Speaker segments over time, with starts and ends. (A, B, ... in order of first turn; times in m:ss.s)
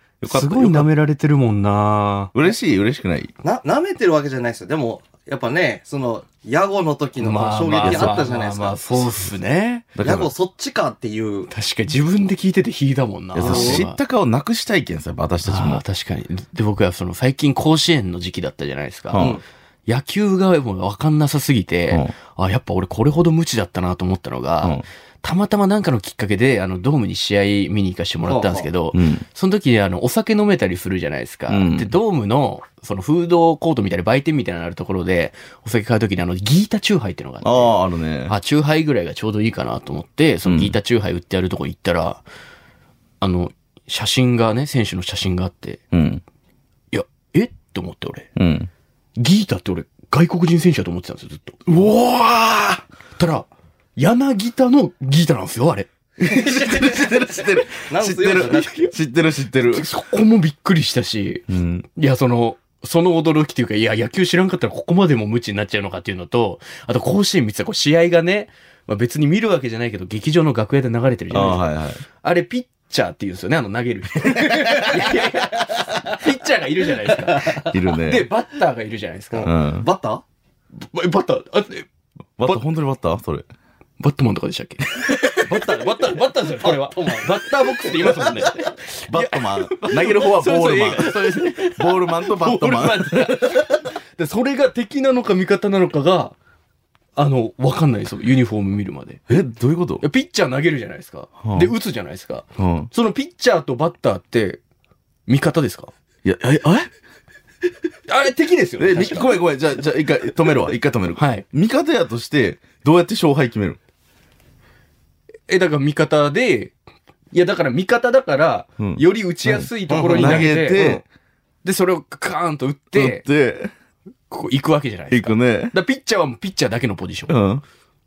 0:00.2-0:00.9 A
0:00.3-0:02.5 B
0:02.4-0:03.3 A
0:03.4-0:08.8 C
0:07.2-0:09.9 B
0:07.8-0:08.3 A
0:10.0-0:10.3 A
0:10.0-0:11.5 C
0:11.5-0:14.0 B
0:13.3-0:15.8 A
0:13.4-0:13.9 C
0:15.4-0:19.3 B
0:19.1-0:19.4 A
0:19.2-0:19.4 C
0:19.9-0:37.8 B
0:28.2-0:28.7 C
0:28.9-0:29.2 A
0:31.5-0:31.9 A
0:37.4-0:38.4 A
0:38.3-0:42.2 B
0:40.4-0:40.8 A
0:43.2-0:45.8 B
0:45.9-0:46.2 A
0:46.9-0:48.3 B
0:48.4-0:48.7 A
0:49.2-0:51.9 B
0:51.7-0:52.8 A
0:53.2-0:53.5 B
0:54.0-0:55.9 B
0:56.2-0:59.9 A
0:56.2-0:57.2 C
0:56.7-0:57.2 B
0:57.7-0:58.8 C
0:58.4-0:58.9 B
0:59.7-1:11.6 B
1:01.5-1:01.9 A
1:11.3-1:12.0 A
1:12.2-1:19.5 B
1:14.3-1:14.9 A
1:14.4-1:16.2 C
1:17.0-1:17.7 C
1:17.7-1:18.3 A
1:19.3-1:20.2 C
1:19.4-1:19.9 A
1:20.8-1:21.9 B
1:22.4-1:23.5 A
1:24.0-1:36.4 B
1:25.4-1:28.5 C
1:29.1-1:33.8 A
1:37.2-1:39.2 B
1:39.3-1:40.0 A
1:40.0-1:44.6 B
1:41.4-1:41.7 A
1:42.6-1:42.9 A
1:45.3-1:45.9 B
1:46.2-1:46.9 A
1:48.1-1:49.4 B
1:48.8-1:53.8 A
1:51.2-1:51.4 B
1:55.5-1:56.7 B
1:57.3-2:00.9 B
1:58.8-2:01.0 A
1:59.9-2:01.0 C
2:01.6-2:03.2 B
2:02.9-2:03.7 A
2:04.3-2:07.4 B
2:05.1-2:05.8 A
2:07.3-2:07.6 A